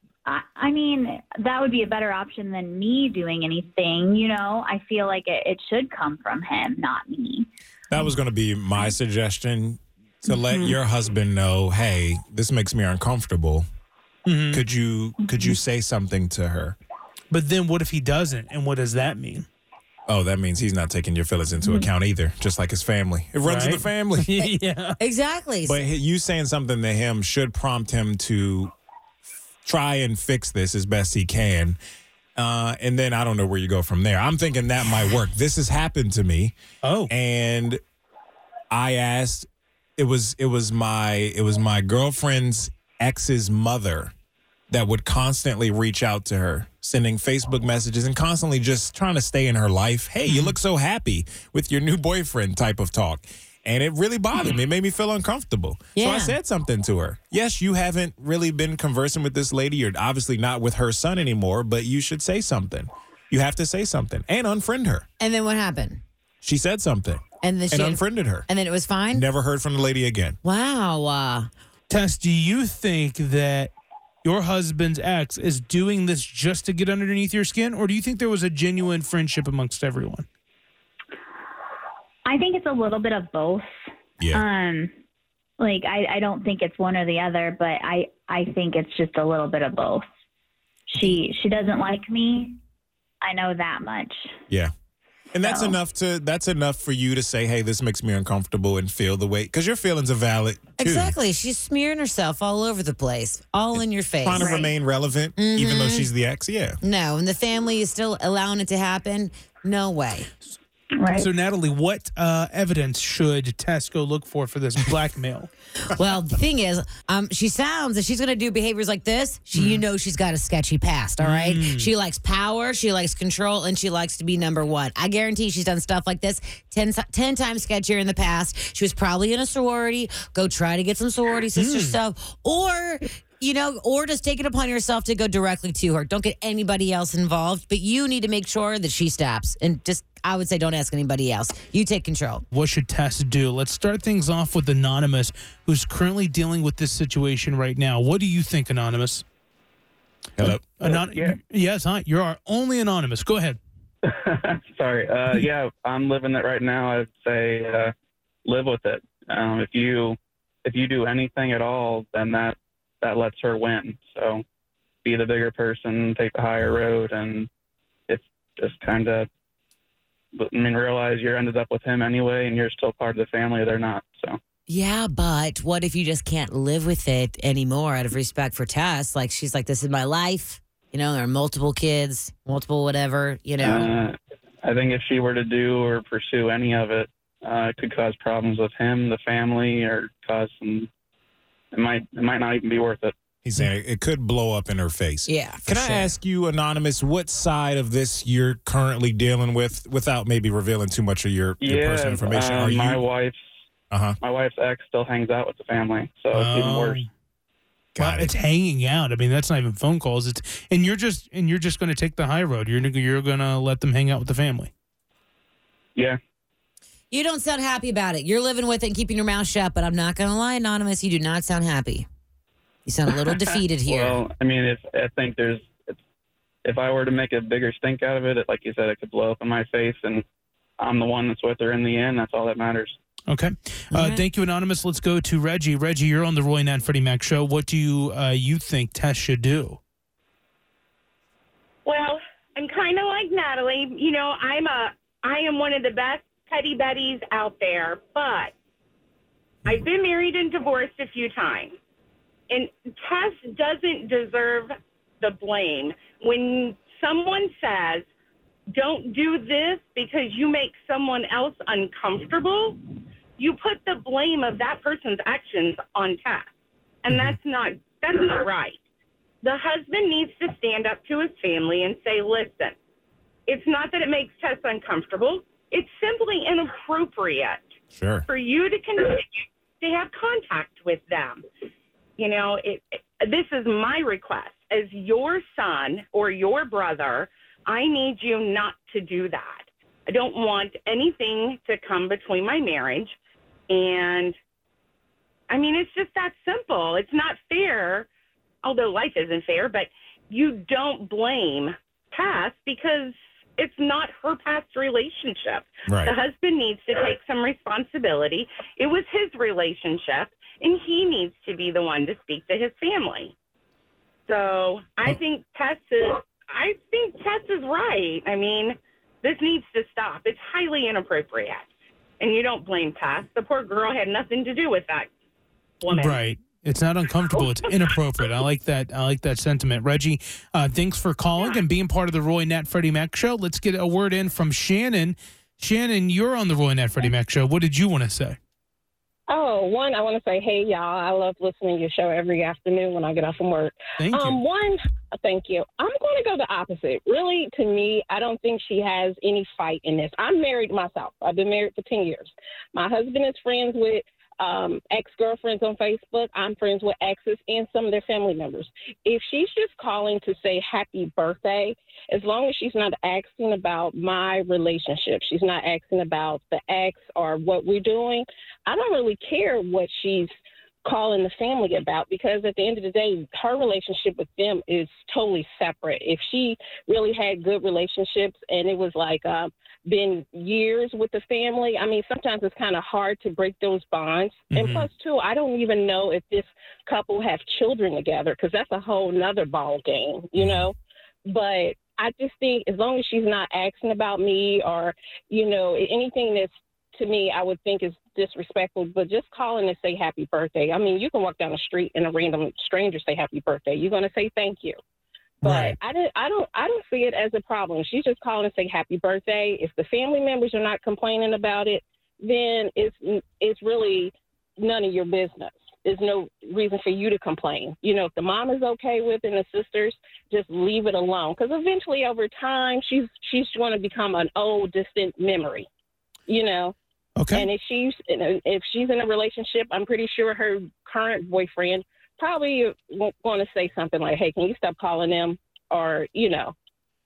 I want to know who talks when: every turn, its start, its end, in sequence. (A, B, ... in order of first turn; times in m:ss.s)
0:00.3-0:08.0 A
0:07.9-0:13.7 B
0:10.3-0:10.7 A
0:14.3-0:14.6 C
0:14.5-0:16.8 B
0:17.3-0:19.5 C
0:20.1-0:24.5 B
0:23.4-0:25.0 C
0:25.0-0:25.8 D
0:25.6-0:28.7 B
0:29.6-0:31.8 B
0:32.4-0:36.6 B
0:36.8-0:37.1 C
0:37.1-0:37.8 B
0:38.7-0:44.1 B
0:44.7-1:05.1 B
0:56.0-0:56.4 D
1:05.2-1:06.0 D
1:06.4-1:08.5 B
1:07.4-1:09.3 D
1:09.1-1:10.4 B
1:10.4-1:11.5 D
1:11.9-1:13.7 C
1:14.2-1:20.3 C
1:22.3-1:23.8 A
1:24.3-1:24.9 A
1:25.6-1:30.0 A
1:30.9-1:32.6 A
1:33.2-1:34.4 A
1:35.3-1:41.2 B
1:35.4-1:35.8 A
1:40.8-1:44.6 D
1:44.2-1:46.8 B
1:44.4-1:44.7 A
1:45.4-1:46.1 D
1:46.8-1:50.3 D
1:51.0-1:51.3 A
1:51.1-1:55.5 C
1:55.8-2:22.4 D
1:59.5-1:59.8 C
2:01.2-2:01.9 C
2:11.6-2:12.0 C
2:22.5-2:29.2 C
2:30.4-2:30.8 B
2:30.4-2:33.6 C
2:30.8-2:31.4 E
2:34.1-2:37.9 E
2:38.5-2:44.4 E
2:45.0-2:47.5 E
2:48.1-2:49.3 E
2:50.3-2:54.4 E
2:54.7-3:03.9 D
3:03.6-3:10.9 E
3:11.7-3:13.1 E
3:13.4-3:23.0 B
3:15.3-3:16.1 D
3:21.6-3:23.6 E
3:23.9-3:24.2 B
3:24.2-3:27.0 E
3:26.3-3:27.1 C
3:28.0-3:28.3 B
3:28.0-3:34.7 C
3:37.1-3:42.1 D
3:42.9-3:44.2 D
3:43.9-3:46.0 E
3:46.6-3:50.2 E
3:50.8-3:53.0 E
3:53.3-3:59.8 C
3:53.9-3:54.2 D
4:01.8-4:08.5 F
4:09.6-4:11.8 F
4:12.5-4:18.1 F
4:18.7-4:22.8 F
4:23.4-4:26.5 F
4:27.0-4:28.8 F
4:29.4-4:32.8 F
4:33.5-4:37.6 F
4:37.9-4:38.3 B
4:38.3-4:41.4 F
4:42.2-4:53.1 F
4:53.7-4:54.4 F
4:55.5-4:58.1 F
4:58.6-5:13.3 F
5:05.9-5:06.1 B
5:14.3-5:21.7 F
5:22.2-5:25.1 F
5:25.8-5:26.2 F
5:25.9-5:38.4 C
5:27.3-5:28.2 F
5:39.3-6:10.3 G
5:44.0-5:44.4 C
6:10.8-6:30.8 G
6:24.5-6:24.9 C
6:30.4-6:30.7 B
6:31.3-6:44.8 G
6:45.4-7:05.7 G
6:45.4-6:45.7 B
6:45.4-6:45.7 C
7:06.3-7:06.8 G
7:07.2-7:07.5 C
7:07.3-7:16.6 G